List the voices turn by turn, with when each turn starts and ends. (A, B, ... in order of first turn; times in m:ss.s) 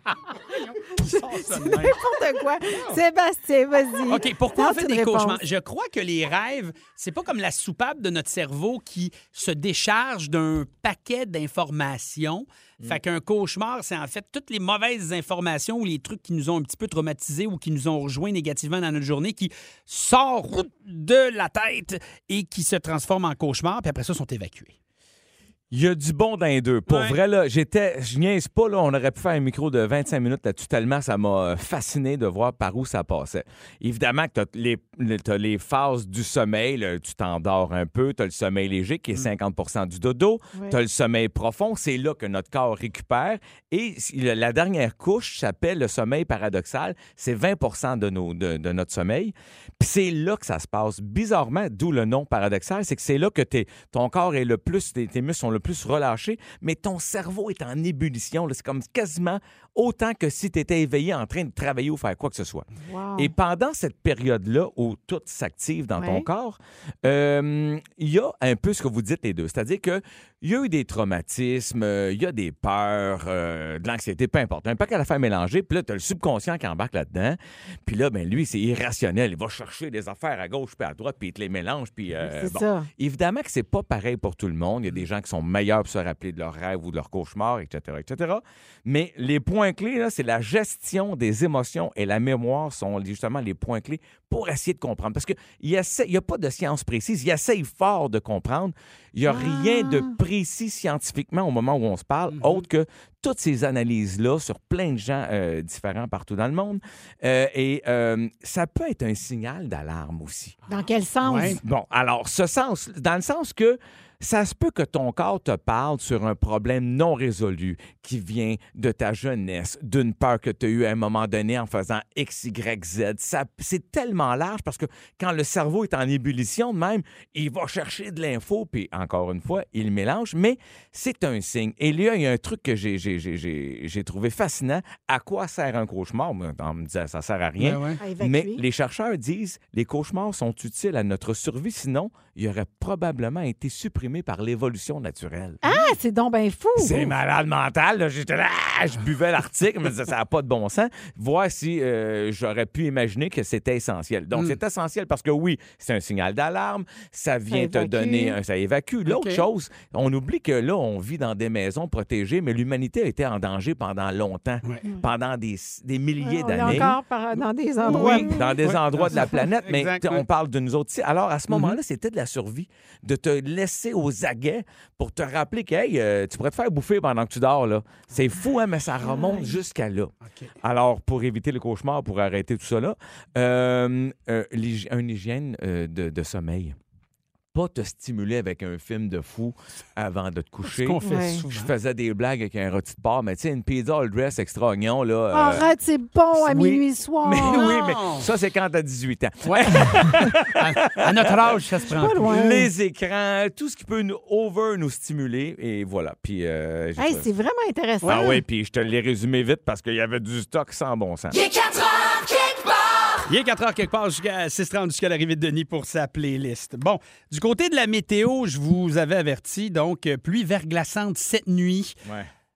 0:00.5-0:02.0 A
0:01.0-0:05.4 B
0:02.7-0:03.0 A
0:04.1-0:24.8 A
0:25.7-1:50.6 C
0:26.9-0:27.2 A
1:02.8-1:03.3 B
1:06.0-1:06.2 B
1:22.2-1:22.9 B
1:39.3-1:40.1 B
1:42.3-1:42.6 A
1:50.7-1:51.6 B
1:51.2-1:51.6 A
1:51.6-2:25.6 C
2:17.6-2:18.0 A
2:18.0-2:18.6 B
2:25.6-2:27.1 B
2:26.8-2:46.9 C
2:37.5-2:38.4 B
2:39.0-2:39.4 A
2:46.2-2:48.4 B
2:46.6-2:46.9 A
2:47.8-2:50.2 A
2:47.9-3:06.8 C
2:51.5-2:51.8 A
2:59.1-2:59.5 B
3:00.2-3:00.5 A
3:07.5-3:15.7 C
3:10.6-3:11.7 A
3:11.0-3:11.4 B
3:15.3-3:17.6 B
3:16.3-3:21.4 C
3:17.4-3:18.3 A
3:19.4-3:22.4 A
3:21.9-3:22.7 B
3:22.2-3:27.3 C
3:27.0-3:28.4 B
3:28.0-3:28.4 A
3:28.0-3:31.5 C
3:33.2-3:42.0 A
3:42.0-3:42.3 C